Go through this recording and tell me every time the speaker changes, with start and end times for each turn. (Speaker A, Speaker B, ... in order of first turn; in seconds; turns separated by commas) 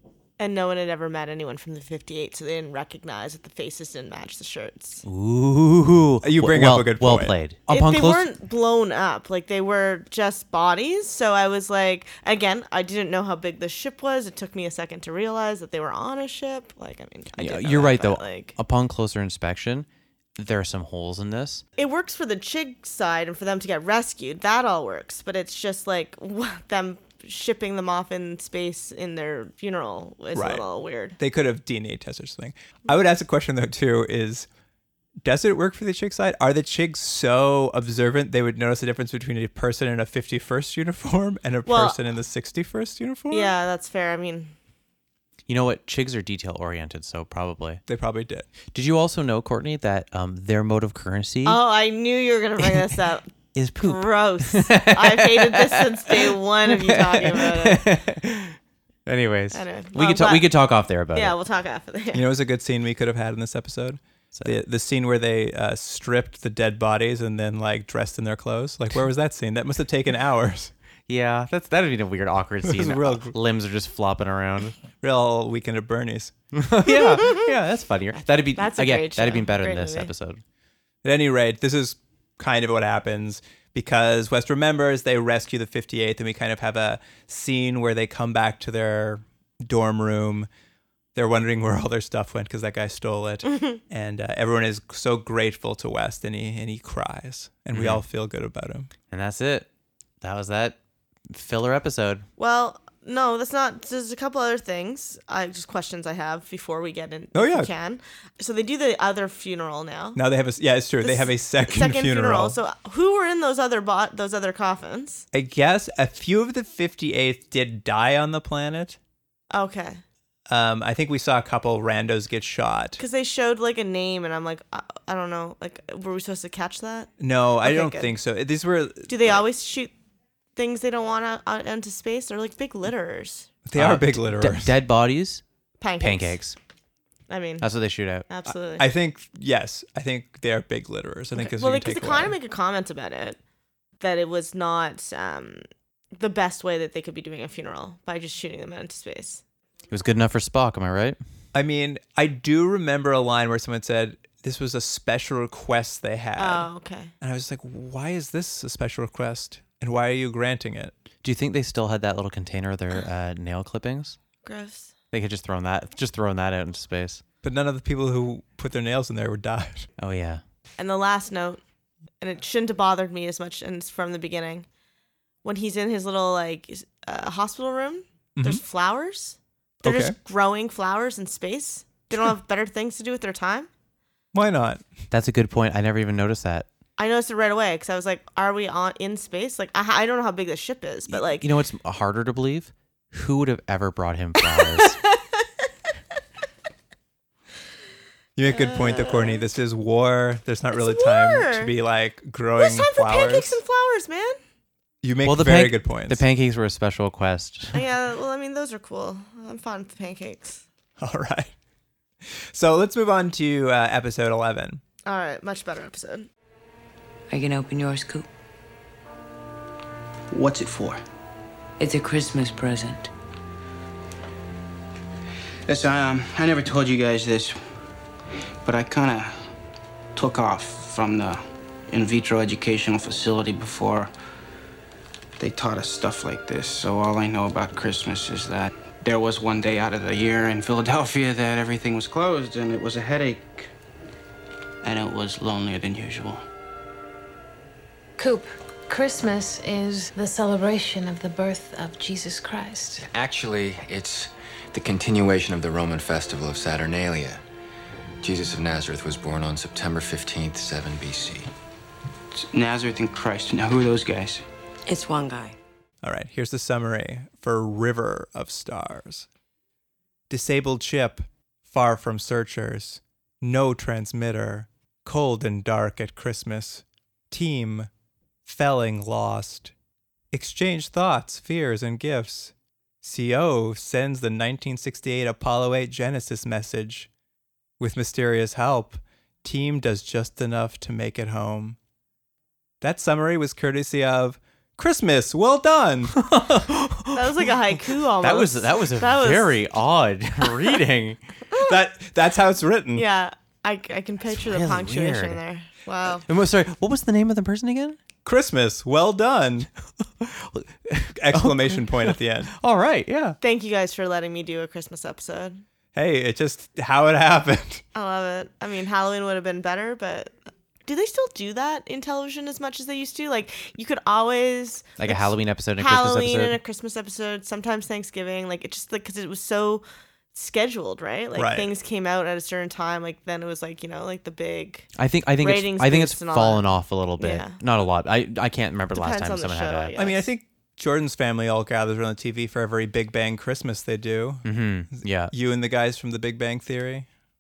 Speaker A: 0.4-5.0, Speaker B: 5.0-8.3, Speaker C: 6.2-7.3, Speaker A: 7.7-18.6, Speaker B: 17.4-21.6, Speaker A: 21.8-31.2, Speaker C: 30.3-30.6, Speaker C: 31.2-34.5, Speaker C: 35.2-43.5, Speaker A: 41.6-42.0, Speaker A: 43.3-44.5, Speaker B: 45.5-47.8, Speaker C: 47.9-48.5, Speaker B: 48.7-51.6, Speaker A: 51.4-53.3, Speaker B: 53.5-61.4, Speaker A: 53.8-57.9, Speaker A: 59.5-60.5, Speaker A: 61.1-62.2, Speaker C: 62.1-70.7, Speaker B: 71.1-74.8, Speaker C: 72.6-73.3, Speaker C: 75.0-76.3, Speaker B: 76.5-80.4, Speaker A: 78.6-80.1, Speaker C: 81.0-90.5, Speaker C: 91.1-98.9, Speaker A: 93.5-93.8, Speaker B: 97.7-98.0, Speaker B: 99.1-99.7, Speaker B: 100.2-100.8, Speaker B: 101.3-102.3, Speaker A: 102.4-110.2, Speaker C: 107.3-107.7, Speaker C: 110.1-112.6, Speaker A: 111.0-115.2, Speaker C: 115.3-119.0, Speaker A: 119.5-120.0, Speaker C: 120.5-123.0, Speaker A: 123.0-128.1, Speaker C: 127.2-129.4, Speaker A: 129.1-129.9, Speaker A: 130.6-133.5, Speaker C: 133.6-134.7, Speaker B: 133.8-135.4, Speaker A: 135.8-136.4, Speaker B: 136.0-136.6, Speaker A: 137.3-137.7, Speaker B: 137.6-138.3, Speaker A: 138.3-138.9, Speaker C: 138.5-142.4, Speaker A: 141.4-143.4, Speaker A: 144.0-145.6, Speaker A: 146.1-149.4, Speaker B: 149.9-151.2, Speaker C: 151.5-156.7, Speaker A: 156.4-157.1, Speaker C: 157.2-160.9, Speaker B: 161.2-164.2, Speaker A: 164.4-164.9, Speaker B: 165.1-167.2, Speaker C: 167.4-169.9, Speaker B: 170.0-170.4, Speaker A: 170.8-171.6, Speaker A: 172.2-174.7, Speaker A: 175.4-183.7, Speaker C: 178.4-178.6, Speaker C: 179.8-180.2, Speaker C: 184.3-184.9, Speaker B: 185.1-186.7, Speaker A: 187.0-191.4, Speaker B: 191.1-195.0, Speaker A: 194.4-195.7, Speaker C: 198.4-203.6, Speaker A: 198.5-199.4, Speaker A: 200.7-201.7, Speaker A: 202.6-204.4, Speaker C: 205.0-206.2, Speaker B: 205.2-207.8, Speaker A: 207.7-210.6, Speaker C: 211.0-211.5, Speaker C: 212.3-214.8, Speaker A: 215.1-216.3, Speaker D: 217.3-218.3, Speaker E: 220.3-221.0, Speaker D: 221.8-223.1, Speaker E: 225.7-227.6, Speaker E: 228.7-229.3, Speaker E: 230.2-231.4, Speaker E: 231.9-234.1, Speaker E: 235.4-243.6, Speaker E: 244.9-246.4, Speaker F: 248.2-253.1, Speaker G: 253.0-257.4, Speaker G: 258.2-261.5, Speaker E: 262.4-264.4, Speaker D: 264.9-265.6, Speaker C: 266.0-269.3, Speaker C: 270.3-277.9, Speaker C: 278.4-279.7, Speaker C: 280.3-287.1, Speaker C: 287.8-291.8, Speaker C: 292.8-296.2, Speaker B: 296.1-301.2, Speaker A: 297.1-299.6, Speaker A: 301.5-301.8, Speaker C: 301.6-303.1, Speaker A: 302.9-306.2, Speaker B: 304.3-305.4, Speaker B: 306.2-308.0, Speaker C: 308.2-309.7, Speaker B: 310.2-313.4, Speaker C: 311.1-312.5, Speaker A: 313.4-315.6, Speaker C: 315.9-317.8, Speaker A: 317.9-320.3, Speaker A: 320.9-334.9, Speaker B: 325.0-326.6, Speaker C: 331.3-331.7, Speaker B: 334.9-339.9, Speaker A: 335.4-336.6, Speaker A: 337.2-337.6, Speaker A: 338.9-340.2, Speaker C: 339.9-344.4, Speaker B: 344.4-345.3, Speaker C: 345.3-347.1